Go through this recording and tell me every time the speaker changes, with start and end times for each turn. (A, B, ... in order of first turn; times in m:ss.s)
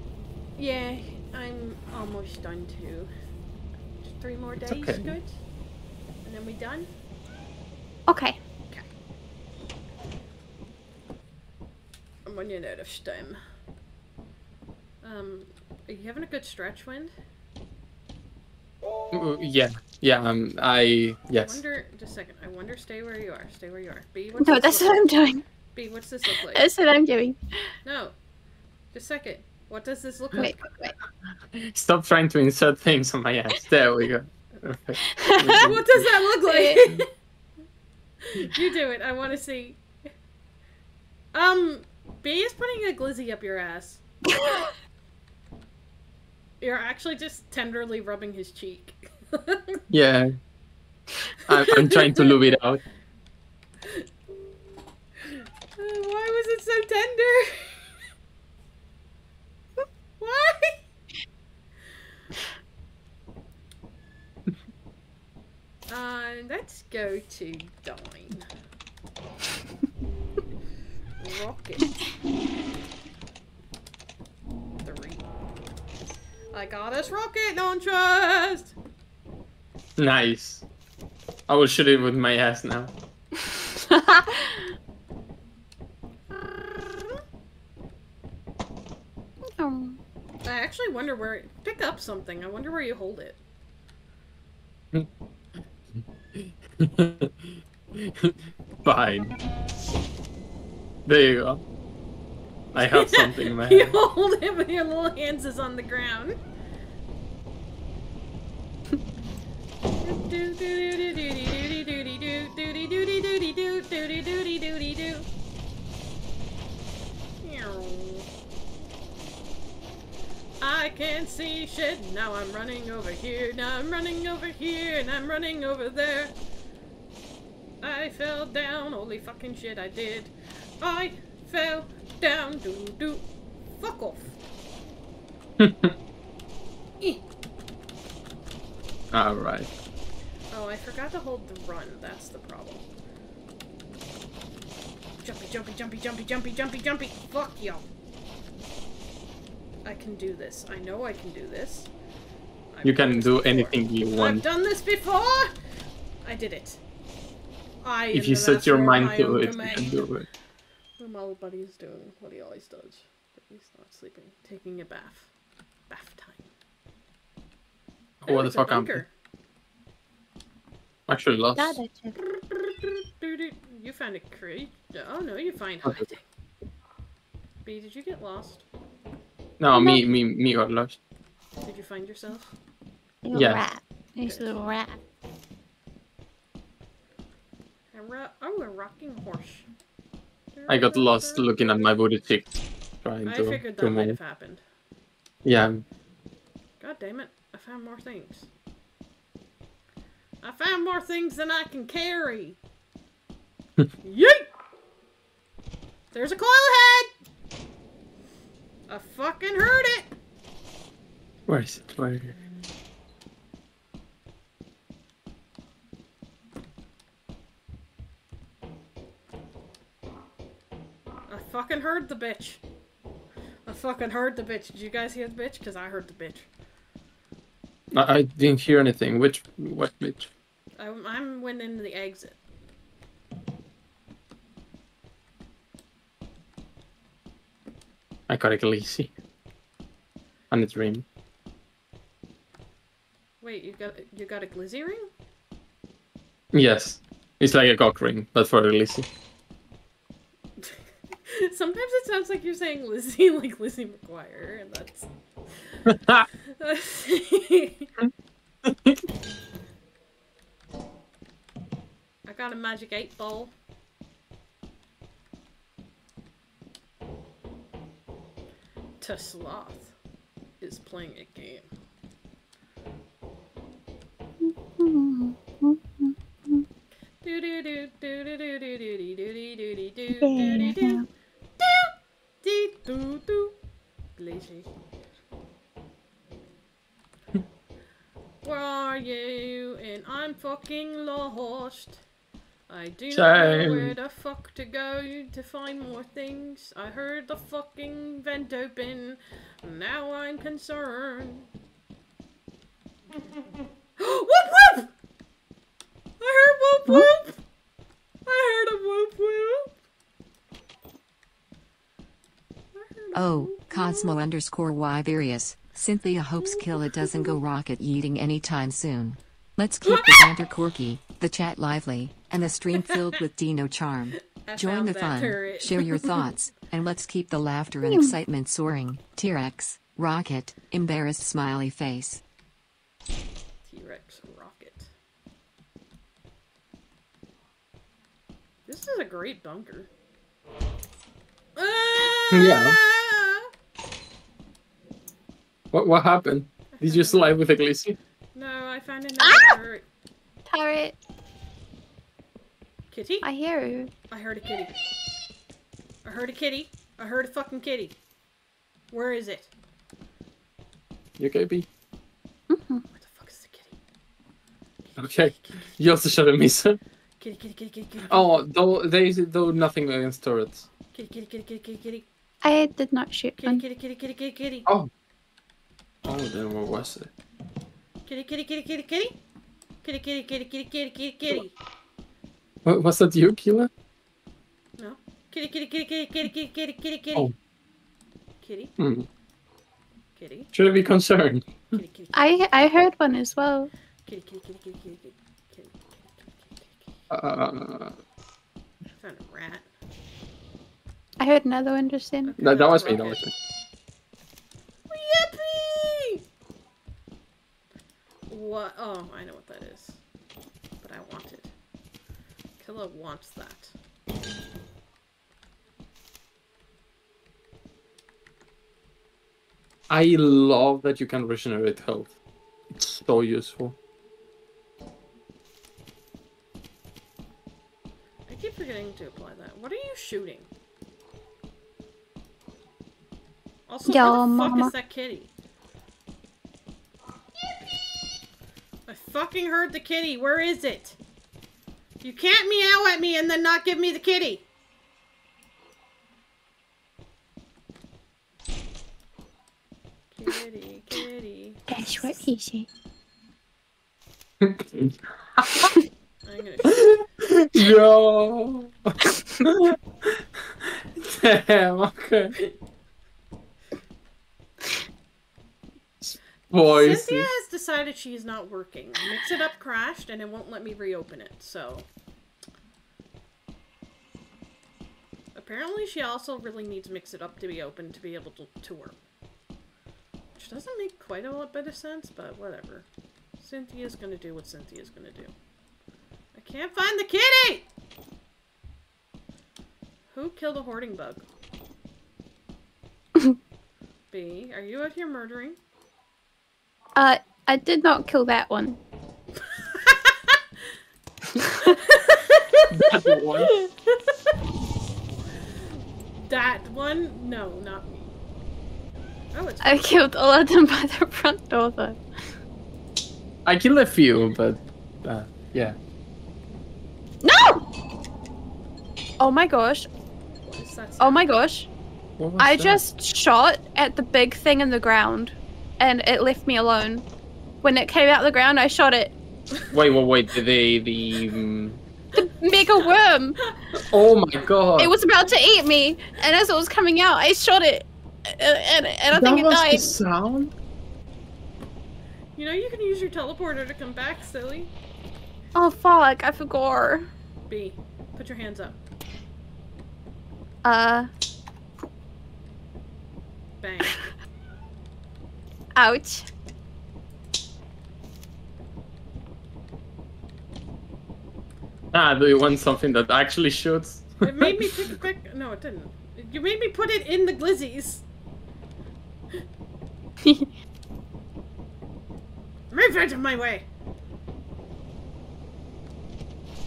0:00.6-0:03.1 A
0:04.0-0:05.4 A
0:04.7-0:05.1 B
0:06.2-0:06.9 A
0:08.1-0:08.4 C
0:12.3-0:13.4 A
0:15.0-0:17.1 A
0:19.1-0:21.6 B
0:21.4-0:25.1 A
0:24.4-0:25.4 C
0:25.7-0:26.7 A
0:26.5-0:27.4 C
0:27.8-0:28.2 A
0:28.9-0:30.5 A
0:30.4-0:31.0 C
0:31.5-0:35.8 B
0:35.1-0:35.6 C
0:35.6-0:37.1 A
0:36.5-0:36.8 C
0:38.2-0:39.8 A
0:41.3-0:44.0 A
0:44.3-0:44.7 C
0:46.6-0:49.8 A
0:49.9-0:50.4 B
0:51.5-0:52.8 B
0:51.6-0:52.4 A
0:55.2-0:57.9 A
1:00.2-1:00.8 A
1:05.9-1:08.4 A
1:11.2-1:12.0 A
1:14.8-1:15.3 A
1:16.5-1:18.8 A
1:20.0-1:20.6 B
1:21.5-1:22.9 B
1:23.9-1:24.6 C
1:26.4-1:27.2 A
1:29.5-1:30.0 C
1:30.4-1:33.4 A
1:36.3-1:39.3 B
1:41.1-1:41.6 B
1:42.7-1:44.0 B
1:42.7-1:46.4 A
1:50.0-1:55.3 A
1:57.4-1:58.3 A
2:00.6-2:06.4 A
2:07.8-2:13.2 A
2:13.8-2:14.4 A
2:15.6-2:15.9 B
2:19.1-2:19.7 B
2:20.5-2:22.8 A
2:25.2-2:27.9 A
2:29.8-2:31.9 A
2:32.7-2:35.5 A
2:32.8-2:34.4 B
2:36.2-2:36.8 A
2:37.8-2:40.1 A
2:38.1-2:40.3 B
2:41.0-2:45.3 A
2:45.9-2:46.5 A
2:48.2-2:49.0 B
2:48.2-2:49.1 A
2:51.1-2:51.8 B
2:51.6-2:52.2 C
2:52.8-2:56.2 A
2:57.6-2:58.6 A
2:59.6-3:01.0 B
2:59.7-3:00.0 C
3:01.6-3:02.6 A
3:03.2-3:05.0 C
3:03.3-3:03.6 B
3:04.2-3:04.6 A
3:07.9-3:09.7 A
3:10.5-3:12.0 A
3:10.7-3:12.5 B
3:13.0-3:14.2 B
3:13.2-3:14.6 A
3:15.4-3:15.8 B
3:16.8-3:18.5 A
3:20.4-3:22.6 A
3:24.0-3:24.4 A
3:26.1-3:27.1 A
3:28.9-3:30.1 A
3:31.5-3:32.4 B
3:41.3-3:42.6 A
3:43.7-3:46.5 A
3:47.9-3:50.3 B
3:50.8-3:52.4 A
3:58.3-3:59.1 B
4:00.5-4:01.0 B
4:03.4-4:05.1 A
4:06.5-4:09.1 B
4:10.6-4:15.1 A
4:15.9-4:16.3 B
4:16.4-4:17.9 A
4:18.6-4:19.0 B
4:22.3-4:23.5 A
4:29.0-4:29.9 A
4:30.6-4:31.7 A
4:34.4-4:36.7 C
4:37.2-4:41.0 A
4:40.2-4:41.0 C
4:41.6-4:43.6 A
4:44.2-4:44.7 A
4:48.4-4:52.0 A
4:52.7-5:01.5 A
4:53.1-4:54.0 B
5:04.0-5:04.9 A
5:06.2-5:07.4 A
5:08.3-5:09.7 A
5:12.8-5:14.2 A
5:13.1-5:32.2 D
5:16.4-5:17.4 A
5:19.8-5:20.3 A
5:24.4-5:26.3 A
5:27.8-5:28.2 C
5:33.6-5:34.9 A
5:38.7-5:39.9 A
5:41.6-5:43.5 A
5:42.3-5:42.8 B
5:45.7-5:48.0 B
5:46.7-5:47.4 A
5:48.4-5:49.8 A
5:49.2-5:49.6 C
5:50.5-5:51.0 C
5:52.9-5:53.3 A
5:53.2-5:53.9 C
5:54.1-5:54.8 A
5:56.0-5:58.0 A
5:58.9-5:59.5 A
6:01.2-6:01.7 B
6:02.5-6:02.8 C
6:02.9-6:03.8 A
6:04.9-6:05.7 A
6:05.0-6:06.8 B
6:07.2-6:08.4 A
6:08.1-6:10.7 B
6:10.9-6:12.1 A
6:12.4-6:13.6 C
6:13.4-6:14.7 A
6:16.0-6:17.1 B
6:18.1-6:19.2 A
6:19.8-6:21.6 A
6:22.6-6:23.7 B
6:24.8-6:27.3 A
6:28.4-6:28.7 A
6:28.8-6:29.1 B
6:30.2-6:30.5 A
6:30.5-6:31.8 B
6:31.7-6:32.4 A
6:32.1-6:33.7 C
6:34.1-6:36.8 A
6:37.1-6:38.0 B
6:39.0-6:39.7 A
6:41.2-6:42.3 C
6:42.3-6:43.3 A
6:42.4-6:43.3 B
6:44.9-6:46.2 A
6:48.3-6:50.0 A
6:50.8-6:51.5 A
6:52.6-6:53.7 A
6:59.9-7:02.2 B
7:02.7-7:03.8 B
7:08.3-7:10.5 A
7:13.7-7:15.3 A
7:13.9-7:14.7 C
7:18.9-7:21.0 A
7:22.0-7:24.5 A
7:30.1-7:32.2 A
7:31.7-7:32.7 C
7:34.4-7:35.7 B
7:36.2-7:37.0 A
7:36.7-7:42.4 B
7:46.0-7:47.3 B
7:46.7-7:51.9 A
7:55.4-7:59.0 A
8:00.4-8:02.9 A
8:03.4-8:05.3 A
8:06.4-8:07.7 A
8:10.1-8:11.2 A
8:14.1-8:15.6 A
8:17.0-8:18.8 C
8:19.4-8:20.4 A
8:21.5-8:21.8 C
8:21.6-8:22.6 A
8:22.7-8:23.5 B
8:23.9-8:24.3 A
8:26.2-8:28.1 A
8:29.3-8:30.0 A
8:29.6-8:32.0 C
8:33.4-8:35.8 B
8:37.2-8:37.6 C
8:39.2-8:39.9 C
8:40.4-8:41.3 A
8:41.0-8:41.7 C
8:42.2-8:42.8 B
8:42.4-8:47.0 C
8:47.6-8:49.2 C
8:49.7-8:51.8 B
8:52.2-8:53.4 C
8:53.8-8:54.9 B
8:54.8-8:59.9 C
8:59.1-9:00.5 B
9:02.4-9:04.7 A
9:05.6-9:07.1 C
9:07.5-9:08.8 A
9:10.6-9:11.1 C
9:13.6-9:14.0 A
9:15.8-9:16.3 C
9:21.9-9:24.9 B
9:24.2-9:28.0 A
9:30.2-9:30.5 C
9:32.7-9:33.7 A